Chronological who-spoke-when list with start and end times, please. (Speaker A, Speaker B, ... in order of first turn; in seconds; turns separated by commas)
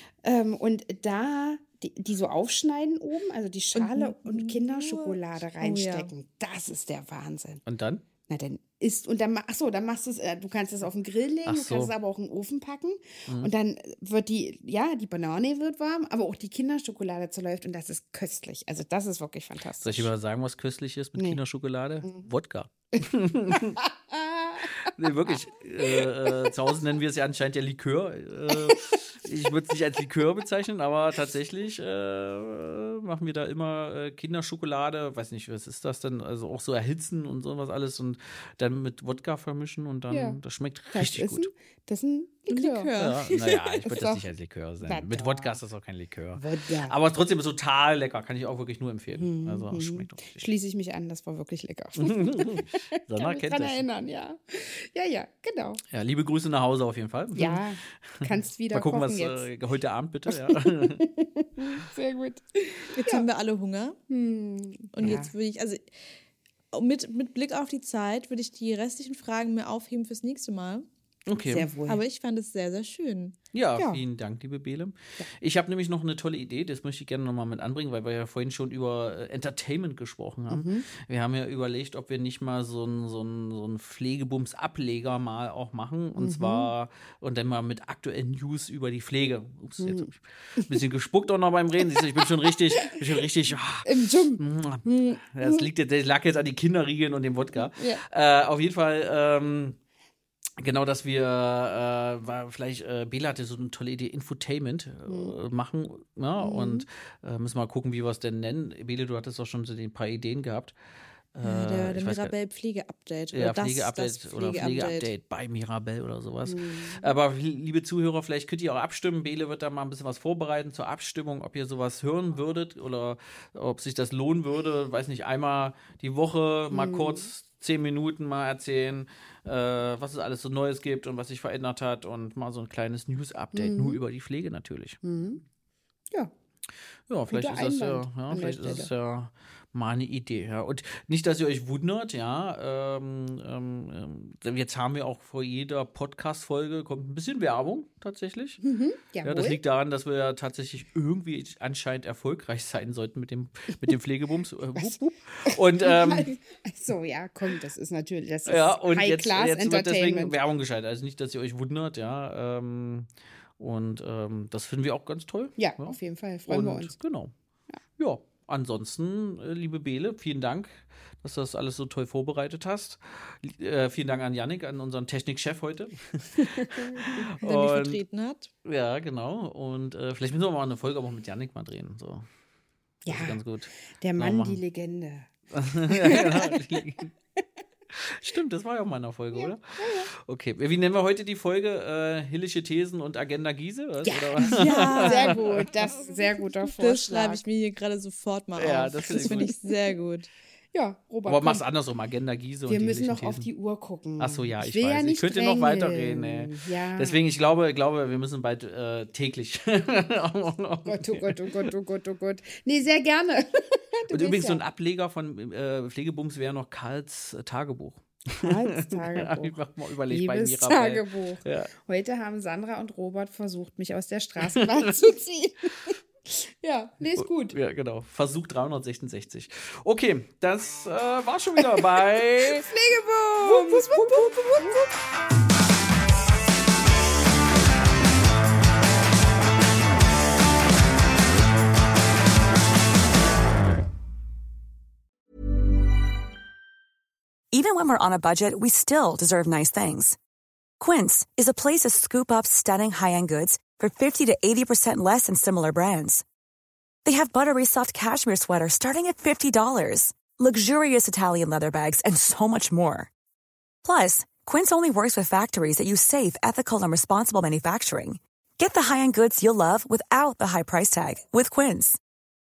Speaker A: 0.2-7.6, Speaker B: 3.7-6.1, Speaker C: 7.7-8.1, Speaker A: 8.3-20.1, Speaker C: 11.4-11.9, Speaker C: 19.8-23.8, Speaker A: 23.6-25.3, Speaker C: 24.6-41.5, Speaker A: 25.8-26.6, Speaker A: 40.1-40.4, Speaker A: 40.9-42.9, Speaker B: 42.5-43.4, Speaker C: 43.0-50.5, Speaker A: 43.4-44.2, Speaker A: 44.8-45.6, Speaker A: 46.4-47.0, Speaker A: 49.1-55.8, Speaker C: 52.0-53.8, Speaker C: 55.9-61.0, Speaker A: 57.3-59.5, Speaker A: 60.3-63.2, Speaker B: 63.0-64.0, Speaker A: 64.1-65.3, Speaker B: 64.9-65.9, Speaker B: 66.7-70.9, Speaker C: 71.3-71.7, Speaker A: 71.5-72.0, Speaker B: 71.9-73.4, Speaker C: 73.5-99.8, Speaker A: 73.8-74.0, Speaker A: 80.5-80.9, Speaker A: 86.2-86.7, Speaker A: 89.8-90.8, Speaker A: 91.9-93.0, Speaker A: 93.8-94.4, Speaker A: 95.4-95.7, Speaker A: 97.5-98.0, Speaker C: 100.6-110.7, Speaker A: 105.1-105.3, Speaker A: 106.4-106.9, Speaker C: 111.3-112.3, Speaker B: 111.4-115.1, Speaker C: 113.3-135.0, Speaker A: 116.5-117.1, Speaker A: 126.7-127.3, Speaker A: 133.5-134.0, Speaker A: 135.0-135.4, Speaker C: 137.1-148.6, Speaker A: 137.3-138.9, Speaker A: 148.6-149.6, Speaker C: 149.2-156.3, Speaker A: 155.5-160.4, Speaker C: 158.4-165.9, Speaker A: 165.6-166.9, Speaker C: 166.5-167.3, Speaker C: 168.0-178.0, Speaker A: 176.6-177.2, Speaker B: 177.3-178.5, Speaker C: 178.6-182.3, Speaker A: 183.1-183.4, Speaker C: 183.1-184.6, Speaker A: 184.0-185.3, Speaker C: 185.5-187.1, Speaker A: 185.9-186.8, Speaker C: 187.9-195.7, Speaker A: 189.3-190.1, Speaker A: 194.0-197.4, Speaker B: 194.4-196.1, Speaker B: 196.6-200.3, Speaker C: 198.6-199.5, Speaker A: 199.2-199.6, Speaker A: 200.7-201.6, Speaker C: 201.3-203.5, Speaker A: 202.7-207.2, Speaker C: 204.2-211.7, Speaker A: 210.9-214.6, Speaker C: 214.1-221.7, Speaker A: 218.4-227.6, Speaker C: 224.4-224.9, Speaker C: 227.2-232.7, Speaker A: 232.4-234.8, Speaker B: 233.4-234.9, Speaker D: 247.5-250.2, Speaker D: 250.8-256.2, Speaker D: 257.1-263.1, Speaker D: 263.8-272.0